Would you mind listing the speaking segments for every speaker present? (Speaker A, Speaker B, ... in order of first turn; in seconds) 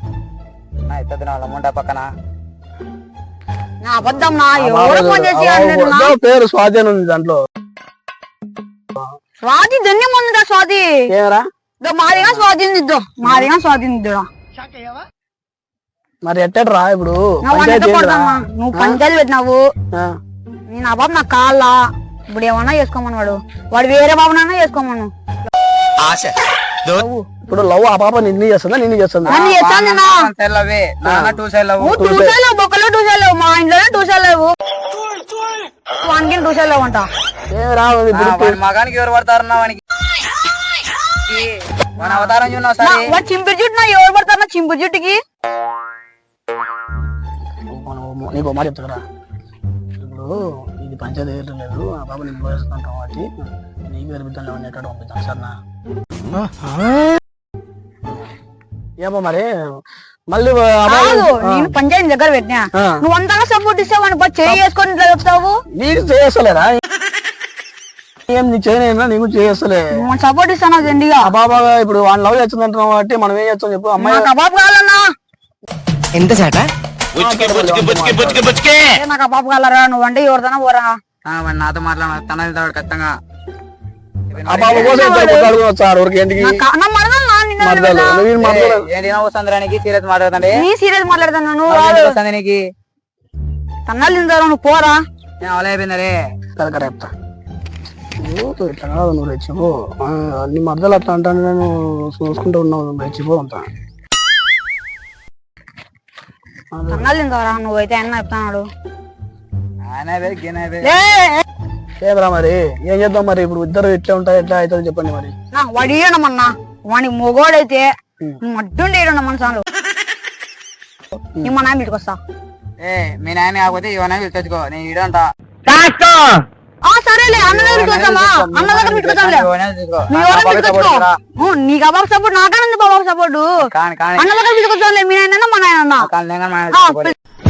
Speaker A: 0.9-2.1, 29.2-32.0, 38.1-39.8, 41.3-43.0, 78.2-78.6, 81.2-83.1, 84.3-85.4, 88.4-90.6, 91.7-92.6, 95.4-96.1, 109.8-110.9, 122.8-125.3, 127.3-131.1, 133.6-134.3, 136.0-137.1
Speaker B: 3.8-6.1, 9.4-10.9, 11.8-14.3, 17.4-19.6, 20.7-25.1, 26.9-27.2, 29.3-30.3, 31.8-34.5, 36.0-37.1, 42.0-45.2, 60.9-65.6, 70.0-71.3, 74.0-75.0, 78.9-81.0, 84.7-85.5, 86.4-88.3, 90.6-92.2, 93.8-95.0, 106.9-108.7, 110.8-111.4, 115.5-117.9, 118.4-119.6, 121.4-122.2, 126.8-129.5, 130.1-133.6, 134.2-136.1, 136.7-137.1
Speaker C: 4.1-7.4, 11.1-11.4, 12.1-12.4, 13.2-13.5, 16.2-19.0, 27.5-29.4, 31.0-31.4, 32.0-32.4, 37.5-38.6, 47.7-49.0, 50.0-55.5, 59.0-59.5, 60.3-61.7, 62.7-63.0, 65.7-66.8, 68.3-69.9, 71.2-74.3, 77.2-78.3, 84.5-86.6, 87.6-88.9, 96.6-97.1, 98.2-103.7, 106.7-107.1, 112.0-115.3
Speaker D: 26.0-27.0, 76.1-78.9, 125.7-126.4